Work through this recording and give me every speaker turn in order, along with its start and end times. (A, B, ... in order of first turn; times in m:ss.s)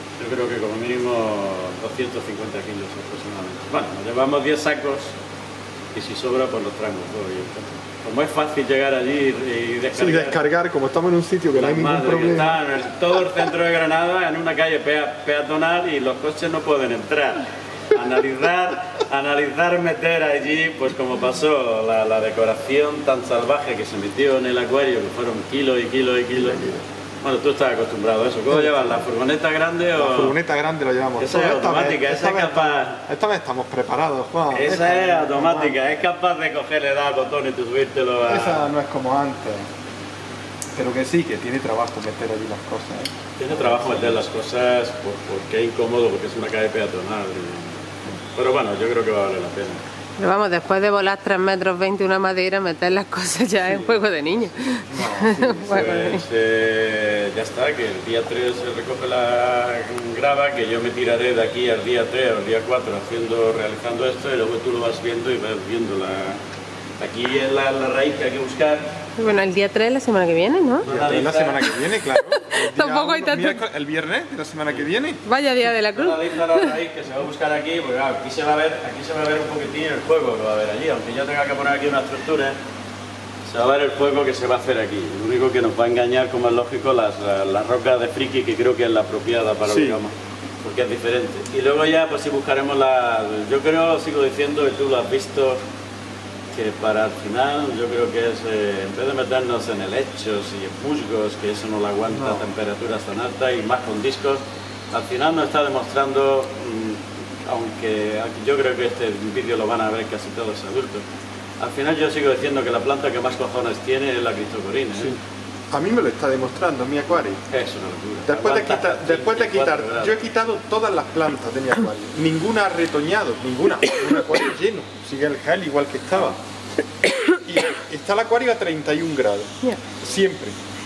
0:00.2-0:05.1 A
0:05.9-0:10.4 A
0:09.9-0:12.6 B
0:11.5-0:26.6 A
0:26.3-0:26.8 B
0:27.2-0:30.4 A
0:28.5-0:29.0 B
0:30.0-0:35.9 B
0:31.2-0:33.0 A
0:34.5-0:38.7 A
0:38.2-0:39.6 B
0:40.7-0:44.2 B
0:43.4-0:47.8 A
0:48.3-0:49.8 A
0:50.2-0:56.2 C
0:53.7-0:53.9 B
0:54.9-0:56.2 B
0:55.7-1:06.4 A
1:07.0-1:08.8 A
1:09.2-1:10.8 C
1:10.8-1:11.7 A
1:10.8-1:15.2 B
1:12.4-1:13.6 C
1:15.2-1:16.7 C
1:15.9-1:22.5 A
1:23.4-1:30.1 A
1:29.6-1:30.0 B
1:30.6-1:35.6 A
1:36.5-1:51.0 A
1:42.1-1:42.4 B
1:51.6-1:55.1 A
1:55.7-1:57.4 B
1:57.5-2:00.1 A
1:58.2-2:06.4 B
2:07.3-2:10.5 B